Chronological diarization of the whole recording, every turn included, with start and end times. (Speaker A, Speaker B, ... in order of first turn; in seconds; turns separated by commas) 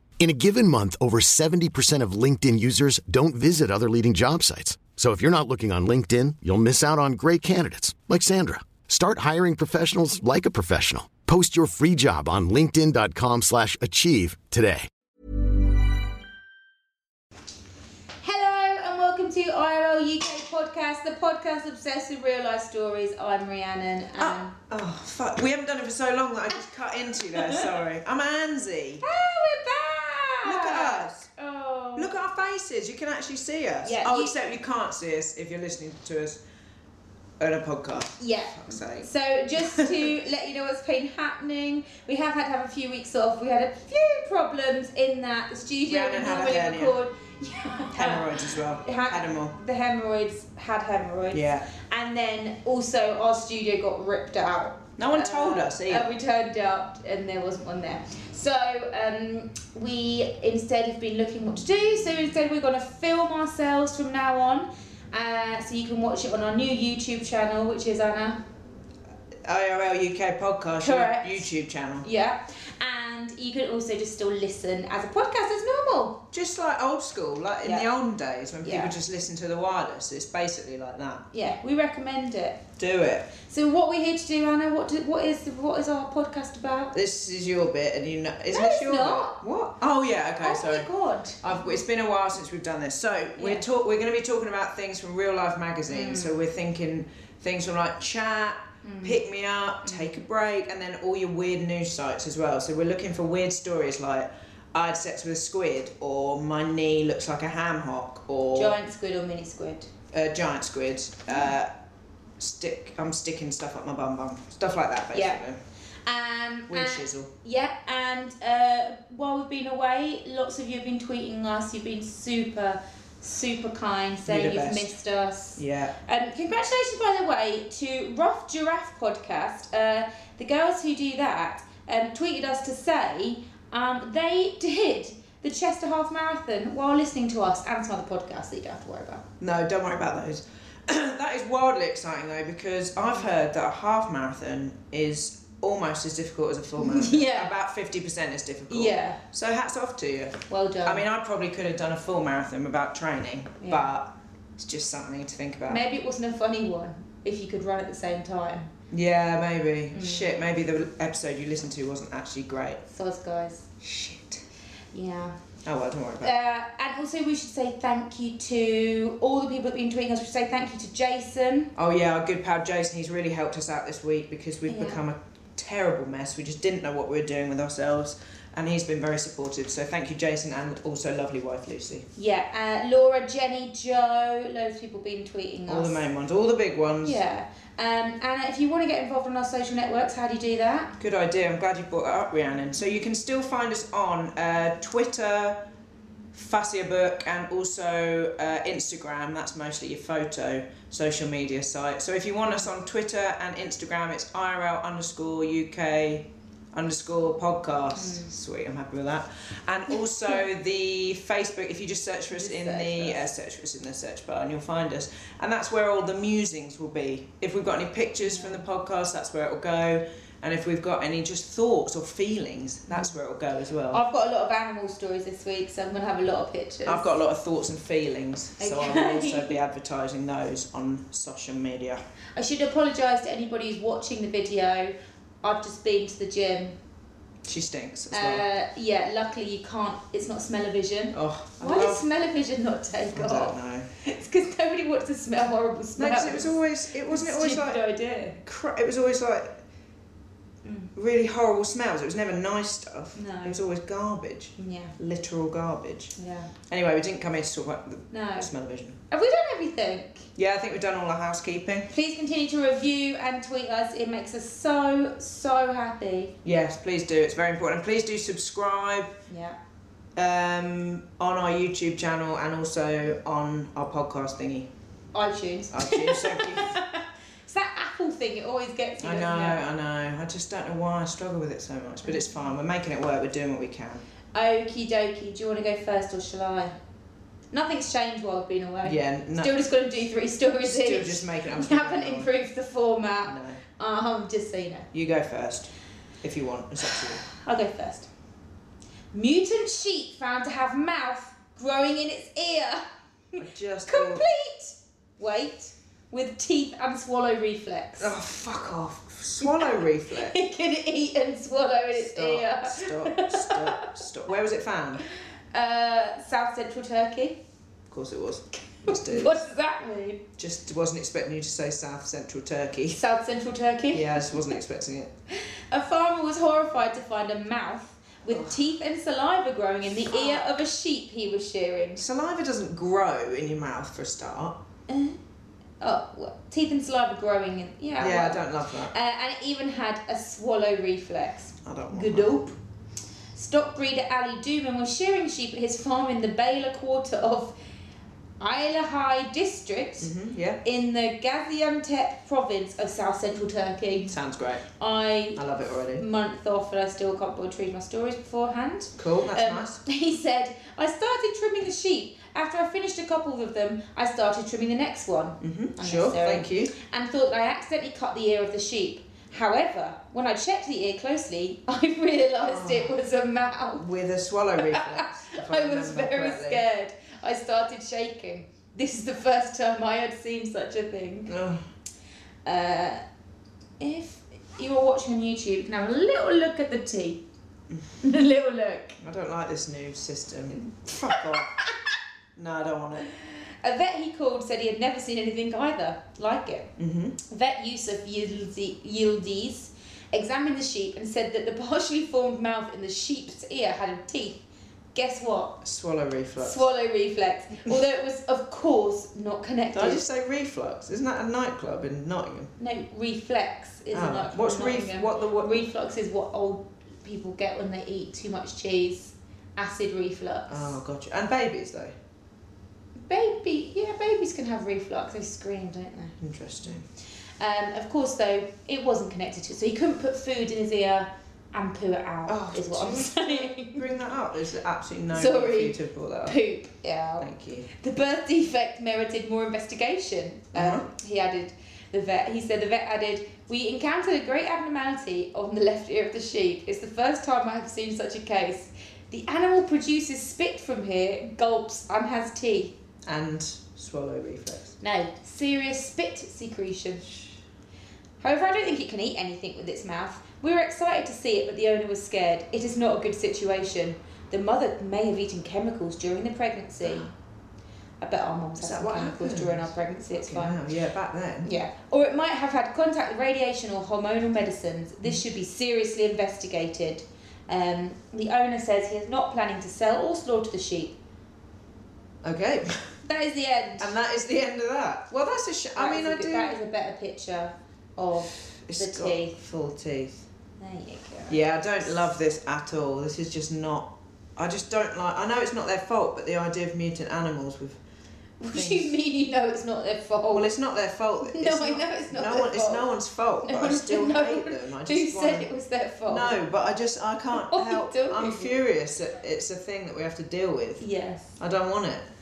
Speaker A: 0.2-14.9, Speaker B: 18.2-24.5, Speaker C: 24.2-29.0, Speaker B: 27.3-27.6, Speaker B: 29.0-32.1, Speaker C: 30.4-31.3, Speaker C: 31.9-36.4, Speaker B: 33.8-34.4, Speaker C: 37.4-40.1, Speaker B: 38.2-48.3, Speaker C: 45.9-46.9, Speaker C: 47.9-49.5, Speaker B: 48.8-68.4, Speaker C: 51.3-51.7, Speaker C: 55.0-56.1, Speaker C: 69.4-72.0, Speaker B: 70.8-71.5, Speaker B: 72.0-76.2, Speaker C: 76.3-81.3, Speaker B: 77.6-77.9, Speaker B: 78.6-79.0, Speaker B: 81.3-82.6, Speaker C: 82.8-83.3, Speaker B: 83.4-86.9, Speaker C: 86.9-90.9, Speaker B: 88.5-89.4, Speaker B: 90.4-91.5, Speaker C: 91.4-108.8, Speaker B: 93.4-93.6, Speaker B: 95.9-96.4, Speaker B: 98.8-99.2, Speaker B: 99.8-100.1, Speaker B: 108.5-109.9, Speaker C: 110.1-111.7, Speaker C: 112.4-115.6, Speaker B: 115.1-115.4, Speaker B: 116.0-139.2, Speaker C: 116.7-117.3, Speaker C: 124.3-124.9, Speaker C: 125.6-125.9, Speaker C: 139.4-155.8, Speaker B: 146.8-147.5, Speaker B: 148.7-149.2, Speaker B: 150.5-151.0, Speaker B: 153.6-153.9, Speaker B: 155.7-158.7, Speaker C: 158.9-162.8, Speaker B: 159.9-160.4, Speaker B: 162.9-163.7, Speaker C: 163.8-164.4, Speaker B: 164.9-165.3, Speaker C: 165.6-166.3, Speaker B: 166.2-171.7, Speaker C: 171.7-182.1, Speaker B: 174.7-175.0, Speaker B: 182.2-186.1, Speaker C: 185.7-187.2, Speaker B: 187.0-190.9, Speaker C: 191.0-195.6, Speaker C: 196.3-224.0, Speaker B: 207.9-208.3, Speaker B: 212.3-213.3, Speaker B: 218.3-218.6, Speaker B: 223.9-227.1, Speaker C: 226.8-232.0, Speaker B: 228.6-229.6, Speaker B: 232.3-236.8, Speaker C: 237.4-238.4, Speaker B: 238.1-248.4, Speaker C: 241.1-242.0, Speaker C: 243.1-243.9, Speaker C: 246.0-247.8, Speaker C: 248.4-249.6, Speaker B: 250.6-250.9, Speaker C: 250.9-256.1, Speaker B: 253.1-253.6, Speaker B: 254.6-254.9, Speaker B: 256.1-256.5, Speaker C: 256.7-259.0, Speaker B: 258.1-258.5, Speaker B: 259.1-260.3, Speaker C: 260.4-261.9, Speaker B: 261.9-266.3, Speaker C: 266.4-269.1, Speaker B: 269.3-269.6, Speaker C: 270.1-274.7, Speaker B: 275.1-279.6, Speaker C: 275.7-276.8, Speaker C: 279.0-284.0, Speaker B: 284.3-286.7, Speaker B: 287.5-294.9, Speaker C: 288.8-289.6, Speaker C: 290.6-292.3, Speaker C: 293.2-293.6, Speaker C: 294.9-295.7, Speaker C: 296.2-297.2, Speaker B: 297.2-298.1, Speaker B: 299.1-308.1, Speaker C: 303.4-304.2, Speaker C: 308.0-310.4, Speaker B: 309.4-313.9, Speaker C: 311.9-315.0, Speaker B: 315.5-317.4, Speaker C: 317.9-319.4, Speaker B: 318.8-320.2, Speaker C: 320.4-323.0, Speaker B: 322.9-324.5, Speaker C: 323.9-325.1, Speaker B: 325.3-332.0, Speaker C: 328.3-328.6, Speaker C: 330.1-330.5, Speaker C: 332.0-334.6, Speaker B: 334.9-335.2, Speaker B: 335.8-342.6, Speaker C: 338.0-338.9, Speaker C: 341.6-342.5, Speaker B: 343.3-347.5, Speaker B: 348.4-350.1, Speaker C: 350.0-350.6, Speaker B: 350.6-354.1, Speaker C: 354.1-354.6, Speaker B: 354.8-355.4, Speaker C: 355.3-356.0, Speaker B: 355.9-373.8, Speaker C: 359.0-359.8, Speaker C: 365.4-366.7, Speaker C: 372.4-372.9, Speaker C: 373.7-376.6, Speaker B: 374.6-381.3, Speaker C: 381.3-381.6, Speaker B: 382.4-383.0, Speaker B: 383.8-387.2, Speaker B: 388.0-389.0, Speaker C: 389.0-391.5, Speaker B: 391.1-391.7, Speaker C: 392.4-393.1, Speaker B: 393.1-396.7, Speaker C: 396.8-397.1, Speaker B: 397.2-404.4, Speaker B: 404.9-405.6, Speaker C: 405.6-406.6, Speaker B: 406.4-410.0, Speaker C: 409.7-412.5, Speaker B: 412.6-420.7, Speaker C: 413.9-415.6, Speaker C: 420.5-421.9, Speaker B: 423.0-426.1, Speaker C: 426.2-426.8, Speaker B: 427.4-433.9, Speaker C: 432.3-436.4, Speaker B: 435.1-452.7, Speaker C: 437.2-437.7, Speaker C: 440.5-440.9, Speaker C: 453.0-454.7, Speaker B: 454.8-457.1, Speaker B: 458.2-467.1, Speaker C: 466.8-467.1, Speaker B: 468.0-470.6, Speaker C: 468.6-471.5, Speaker B: 471.4-480.9, Speaker C: 482.2-482.9, Speaker B: 483.0-483.9, Speaker C: 483.8-486.6, Speaker B: 485.7-489.4, Speaker C: 488.3-490.2, Speaker B: 490.6-491.4, Speaker C: 491.3-497.8, Speaker B: 498.4-500.5, Speaker C: 498.5-498.9, Speaker C: 500.3-505.5, Speaker B: 501.2-502.9, Speaker B: 503.4-506.4, Speaker C: 506.1-510.8, Speaker B: 507.3-508.6, Speaker B: 510.8-511.4, Speaker C: 511.4-512.1